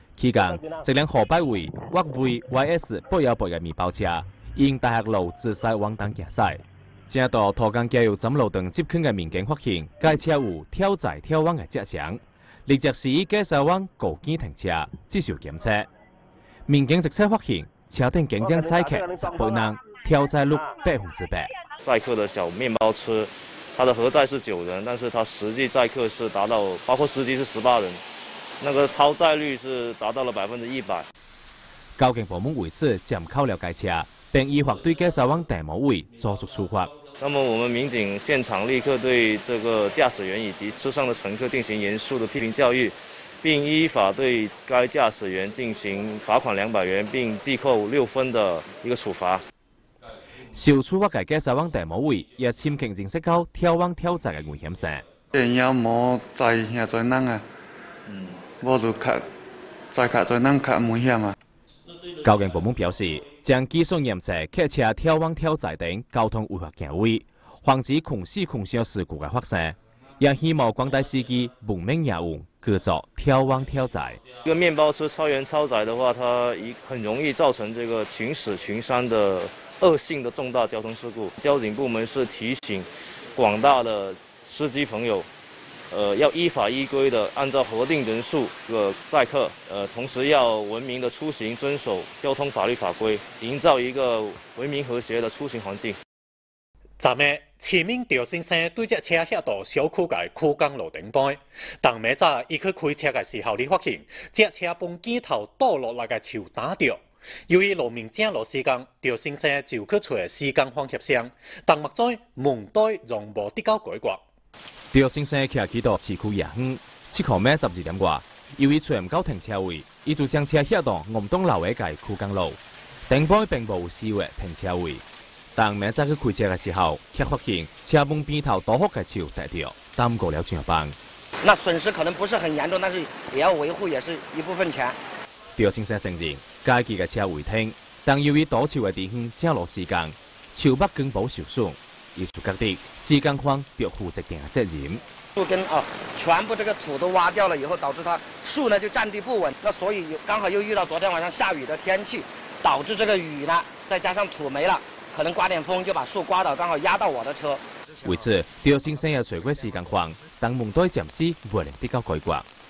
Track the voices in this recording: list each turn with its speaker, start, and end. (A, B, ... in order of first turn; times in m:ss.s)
0:00.2-0:15.9 A
0:16.7-0:21.5 A
0:21.8-0:28.0 B
0:28.6-0:31.0 B
0:32.0-0:36.9 A
0:37.2-0:49.4 B
0:50.5-0:55.0 A
0:55.3-0:57.4 C
0:58.6-0:59.2 C
0:59.9-1:01.3 C
1:02.2-1:14.2 A
1:14.4-1:25.3 B
1:25.9-1:36.0 B
1:37.0-1:54.2 D
1:54.9-2:05.0 A
2:05.6-2:11.0 A
2:11.4-2:15.0 E
2:15.6-2:25.0 A
2:25.4-2:37.6 E
2:38.0-2:42.4 A